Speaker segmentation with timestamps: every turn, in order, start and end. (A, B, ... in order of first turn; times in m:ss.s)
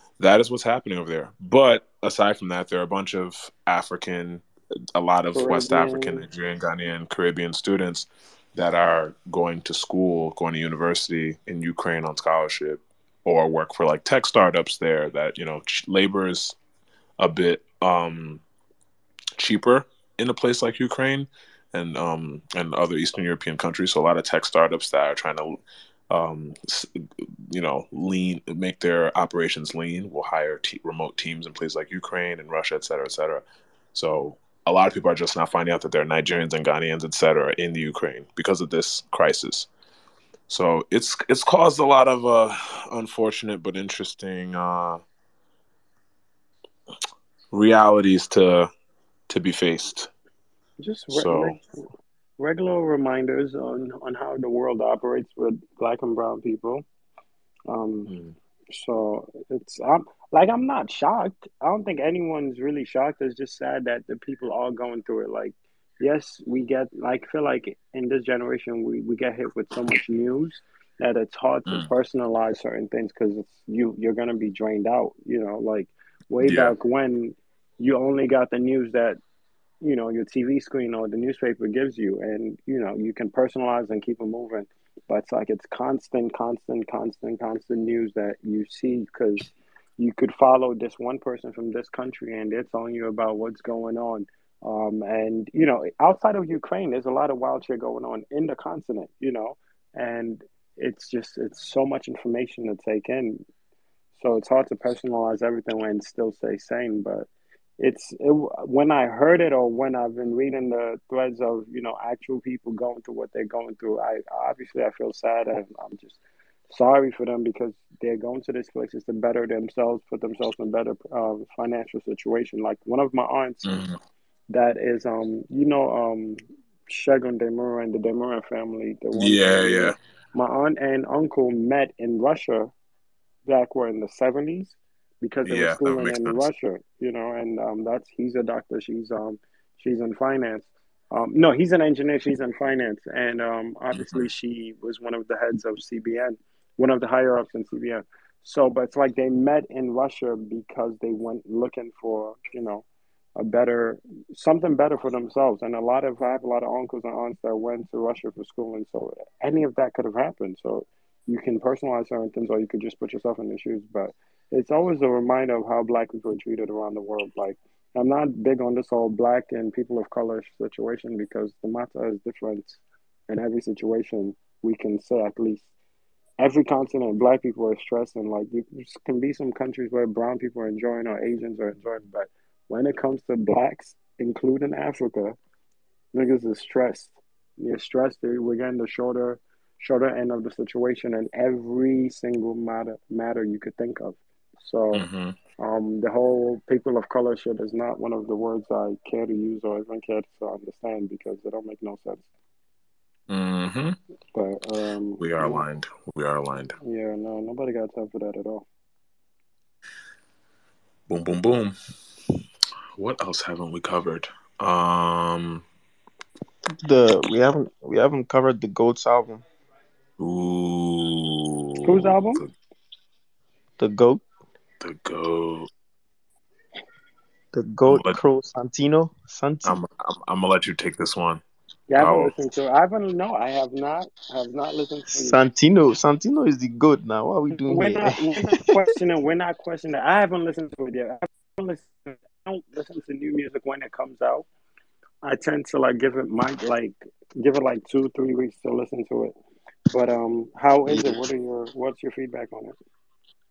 0:00.2-0:16.6 A
0:05.3-0:06.2 B
0:17.2-0:18.4 A
0:19.4-0:26.9 A
0:27.5-0:39.7 A
0:40.5-0:45.0 A
0:47.5-0:48.7 A
0:49.3-0:50.1 A
0:50.8-0:51.6 B
0:51.1-0:51.6 A
0:52.4-0:56.8 B
0:57.7-0:58.1 B
0:58.1-0:58.3 A
0:58.7-1:19.2 B
1:16.4-1:16.7 A
1:19.8-1:43.4 B
1:44.1-1:47.3 B
1:47.8-2:03.8 B
2:03.6-2:04.0 A
2:04.5-2:12.7 B
2:09.1-2:10.0 A
2:13.4-2:32.8 B
2:15.4-2:16.5 A
2:23.9-2:24.3 A
2:33.4-2:55.7 B
2:56.4-3:05.4 B
3:06.1-3:15.0 B
3:14.9-3:15.4 A
3:15.6-3:22.2 B
3:23.3-3:24.0 A
3:24.3-3:25.6 B
3:25.2-3:26.8 A
3:26.8-3:28.6 B
3:31.1-3:31.8 A
3:33.0-3:35.6 A
3:36.8-3:39.4 C
3:40.2-3:42.5 A
3:41.8-3:42.4 B
3:43.8-3:44.2 C
3:44.8-3:45.7 A
3:47.5-3:49.8 C
3:47.8-3:48.2 A
3:49.6-3:51.4 A
3:51.9-3:55.4 B
3:52.0-3:52.3 A
3:55.1-3:58.8 C
3:57.7-4:04.4 B
4:05.2-4:09.3 B
4:09.9-4:12.8 B
4:10.8-4:11.2 C